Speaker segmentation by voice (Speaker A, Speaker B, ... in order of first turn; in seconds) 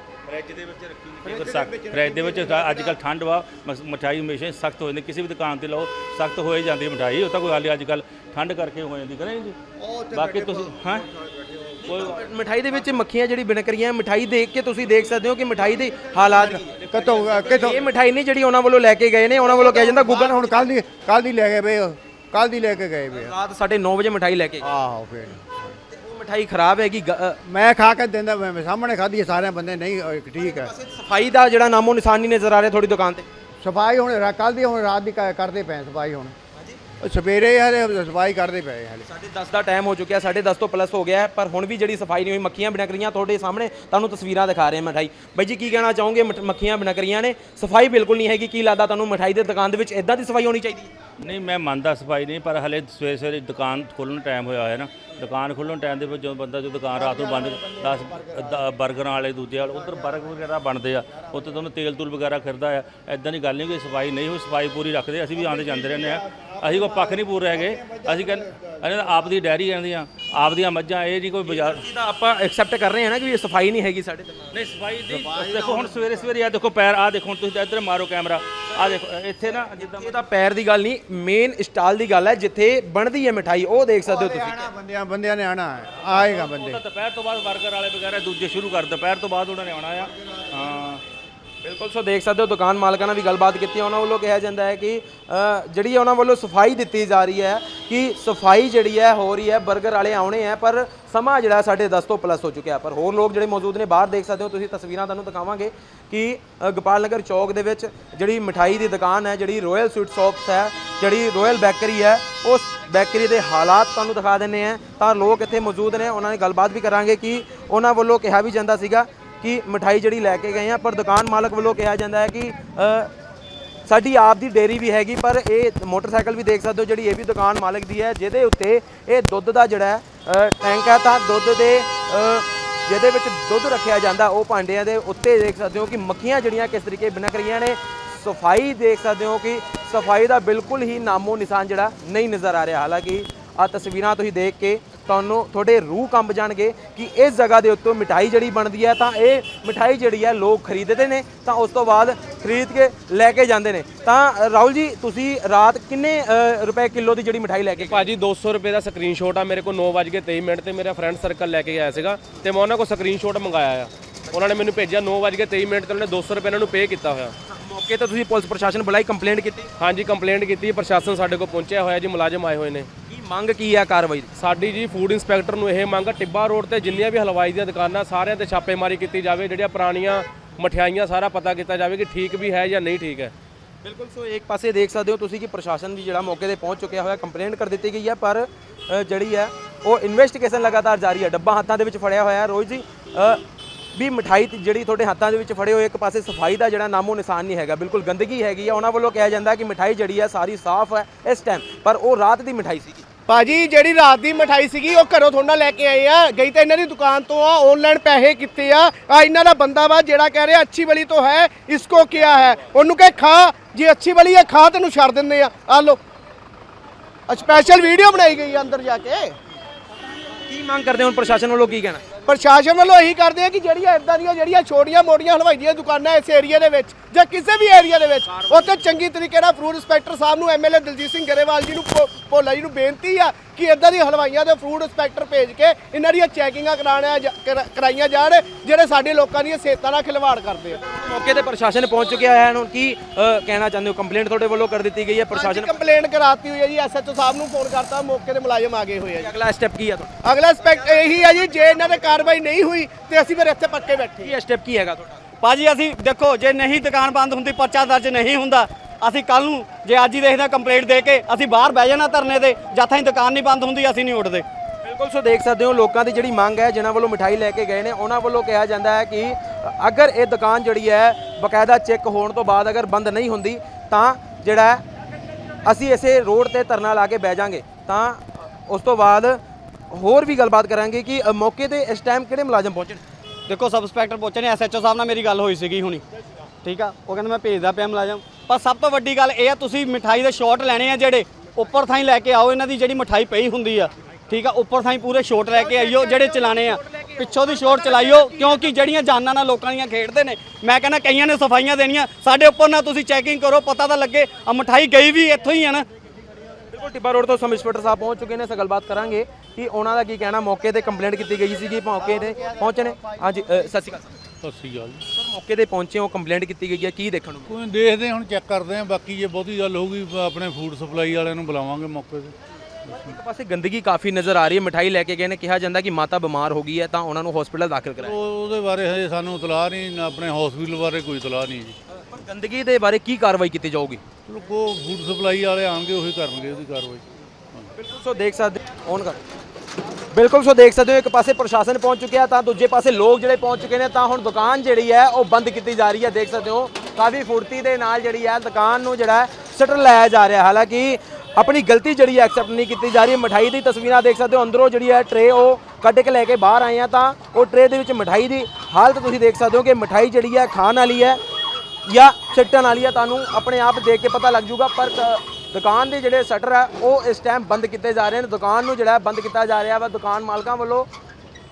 Speaker A: 0.3-9.6, 10.1-11.1, 11.8-12.2, 51.2-71.8, 74.5-80.2, 86.1-91.0
Speaker B: 1.2-2.6, 9.8-11.8, 16.3-17.8, 19.5-23.3, 24.6-25.7, 27.4-30.7, 33.6-36.3, 37.0-39.0, 75.1-76.2, 84.0-86.8
Speaker C: 11.8-20.7, 23.1-24.6, 25.9-27.4, 30.4-33.3, 39.1-50.9, 71.4-74.6, 79.7-84.7, 91.6-123.1, 123.9-158.1, 167.5-169.7, 173.1-174.3, 183.8-193.4, 193.9-203.0, 220.5-222.2, 240.8-245.7, 249.1-250.2, 254.2-255.2, 264.8-274.8, 275.6-283.0, 306.7-314.1, 315.1-317.5, 322.8-328.1, 331.9-334.0, 337.8-339.2, 340.1-361.2, 361.9-370.9
Speaker D: 157.8-167.3, 169.8-172.9, 174.4-183.3, 228.2-228.9
Speaker E: 203.3-216.0, 217.3-219.3, 222.2-240.8, 245.3-249.3, 250.2-254.3, 295.4-298.7
Speaker F: 255.4-264.4, 283.5-286.0, 286.6-305.9
Speaker G: 314.4-315.0, 317.5-322.3, 328.0-331.8, 334.2-337.7